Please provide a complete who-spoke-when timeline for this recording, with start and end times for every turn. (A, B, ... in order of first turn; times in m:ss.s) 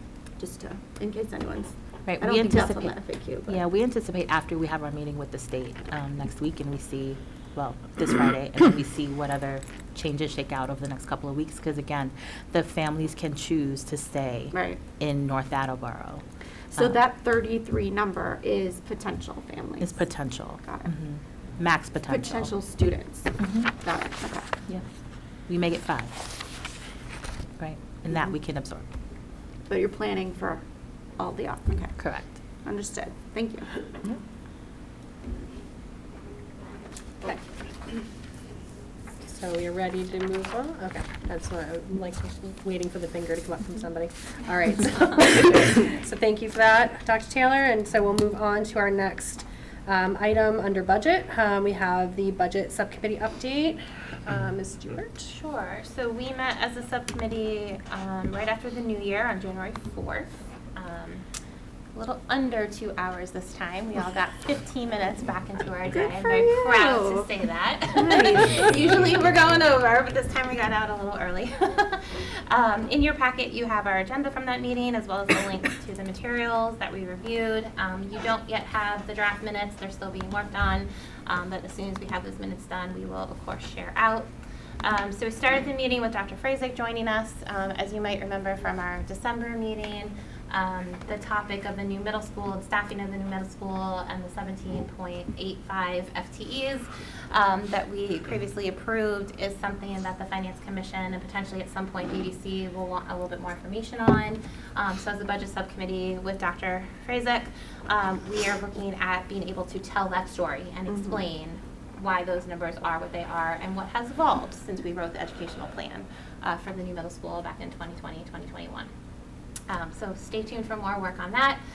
0:00.4-0:03.6 A
0:02.1-0:17.0 B
0:14.5-0:14.8 A
0:16.7-0:20.9 A
0:19.8-0:22.5 B
0:22.1-0:24.5 A
0:23.4-0:23.7 B
0:25.5-0:26.2 B
0:27.6-0:28.8 B
0:29.7-0:30.6 A
0:31.2-0:32.0 A
0:32.0-0:32.3 B
0:32.6-0:33.7 A
0:39.2-0:55.3 C
0:55.3-1:01.2 D
1:01.9-1:24.3 D
1:05.9-1:07.3 A
1:07.9-1:08.8 A
1:24.8-1:58.9 D
1:50.9-1:51.2 A
1:59.7-2:01.6 D